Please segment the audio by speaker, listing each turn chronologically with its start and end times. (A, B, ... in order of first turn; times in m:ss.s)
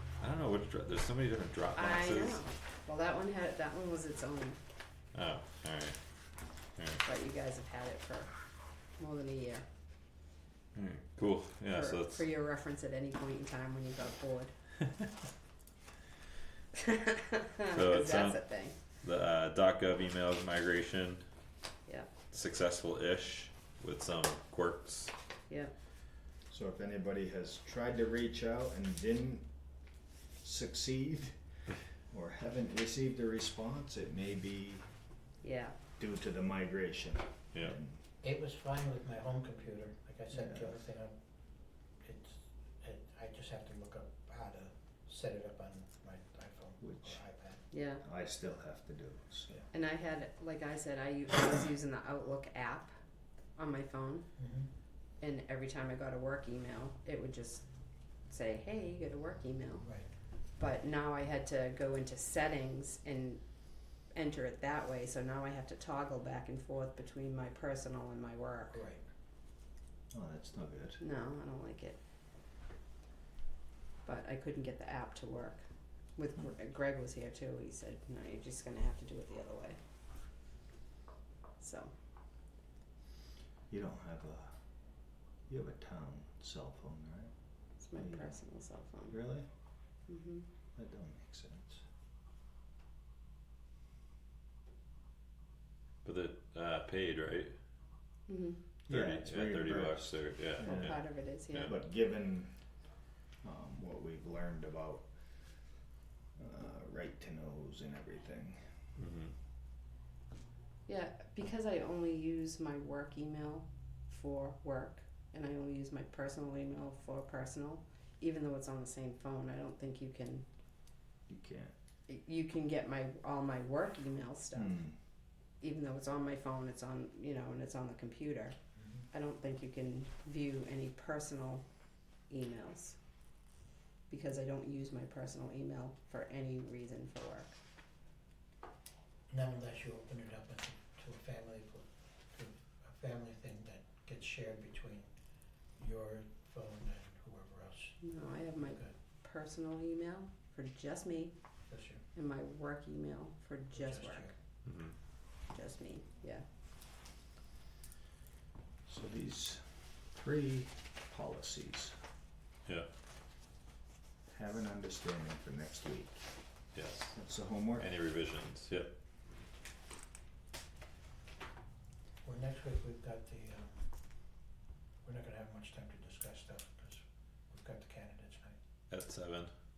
0:00.2-0:02.4 A
0:01.8-0:04.6 B
0:05.1-0:06.0 A
0:06.8-0:07.0 A
0:07.0-0:08.3 B
0:09.0-0:09.7 B
0:10.8-0:12.2 A
0:11.7-0:14.5 B
0:16.8-0:18.8 B
0:17.7-0:18.4 A
0:19.0-0:21.2 A
0:22.3-0:25.1 A
0:26.5-0:29.5 C
0:30.4-0:31.4 C
0:32.1-0:34.8 C
0:35.4-0:35.8 B
0:36.0-0:38.0 C
0:38.2-0:41.2 D
0:40.3-0:40.8 C
0:42.0-0:47.6 D
0:46.8-0:47.2 C
0:47.7-0:48.0 B
0:48.0-0:49.6 C
0:49.7-0:52.9 B
0:53.6-0:54.3 B
0:54.4-0:54.7 D
0:55.2-0:57.6 B
0:58.3-0:59.9 B
0:59.8-1:00.1 D
1:00.6-1:03.4 B
1:04.2-1:08.9 B
1:08.7-1:09.0 D
1:10.1-1:11.0 C
1:11.0-1:12.0 B
1:14.0-1:15.6 B
1:16.2-1:19.8 B
1:21.6-1:21.9 B
1:23.7-1:24.5 C
1:25.5-1:27.3 C
1:27.8-1:29.2 B
1:28.0-1:28.4 C
1:29.1-1:29.5 C
1:30.1-1:30.5 B
1:30.8-1:31.8 C
1:36.0-1:37.5 A
1:38.3-1:38.6 B
1:38.9-1:41.0 C
1:38.9-1:41.7 A
1:40.6-1:41.8 B
1:41.6-1:42.5 C
1:43.4-1:45.1 C
1:46.4-1:48.7 C
1:49.0-1:49.3 A
1:50.9-2:00.5 B
2:01.3-2:01.7 C
2:02.1-2:04.8 B
2:04.5-2:05.0 C
2:05.6-2:08.6 B
2:08.8-2:09.0 D
2:09.1-2:11.6 B
2:12.3-2:13.0 B
2:14.1-2:17.5 B
2:19.3-2:25.1 D
2:25.8-2:28.0 D
2:28.0-2:31.4 B
2:28.6-2:28.9 D
2:31.7-2:32.0 D
2:32.1-2:34.3 B
2:33.7-2:34.3 D
2:34.6-2:35.0 A
2:35.5-2:36.4 B
2:38.9-2:42.0 C
2:44.3-2:46.2 C
2:46.8-2:47.2 A
2:47.2-2:47.9 C
2:47.8-2:49.0 A
2:52.2-2:53.9 D
2:55.0-2:58.6 D
2:58.9-2:59.5 A